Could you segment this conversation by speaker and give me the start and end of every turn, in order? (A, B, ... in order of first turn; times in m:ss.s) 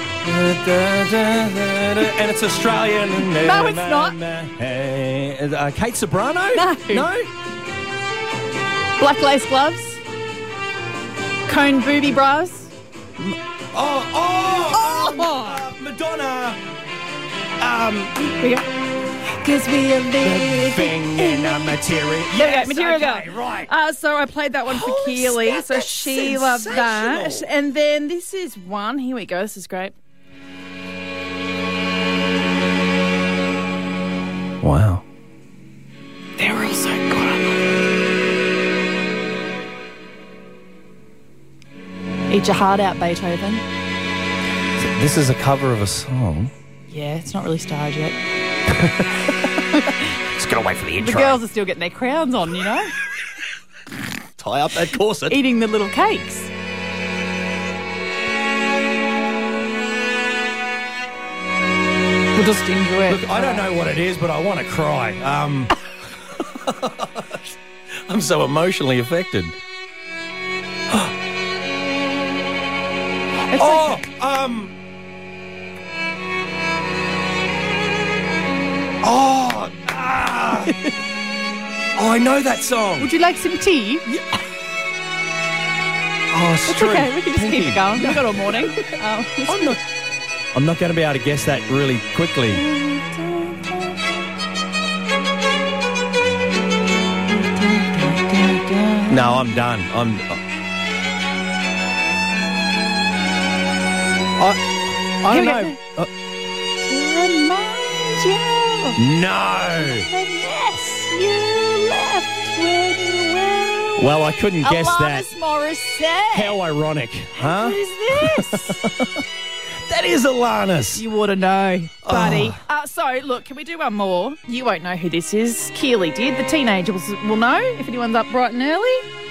0:00.2-0:07.3 A
0:03.4-0:04.2 B
0:06.5-0:07.1 B
0:09.0-0:10.0 B
0:11.5-0:12.7 B
0:13.2-0:16.6 A
0:14.7-0:15.6 B
0:17.6-0:18.2 A
0:18.2-0:18.7 B
0:19.3-0:29.9 B
0:20.2-0:23.7 A
0:24.7-0:27.5 A
0:34.6-0:35.0 A
0:36.4-0:37.6 B
0:42.3-0:43.6 B
0:44.8-0:46.5 A
0:46.9-0:48.2 B
0:48.8-0:49.1 A
0:50.3-0:51.4 A
0:51.0-0:52.9 B
0:54.4-0:55.4 A
0:55.2-0:56.5 B
1:02.3-1:03.4 B
1:03.1-1:05.7 A
1:06.6-1:07.4 A
1:08.1-1:09.6 A
1:13.5-1:14.0 B
1:13.5-1:14.7 A
1:19.0-1:20.7 A
1:22.0-1:23.1 A
1:23.0-1:24.0 B
1:26.3-1:28.3 A
1:26.7-1:29.8 B
1:29.5-1:29.8 A
1:30.5-1:32.6 A
1:32.5-1:34.0 B
1:37.8-1:39.2 B
1:39.1-1:40.4 A
1:44.4-1:46.1 A
1:45.3-1:45.8 B
1:46.8-1:49.0 B
1:49.0-1:50.1 A
1:50.0-1:56.6 B
1:54.0-1:55.3 A
1:56.3-1:59.2 A
1:57.3-1:58.8 B
1:59.9-2:01.0 A
2:00.9-2:09.0 B
2:02.0-2:02.6 A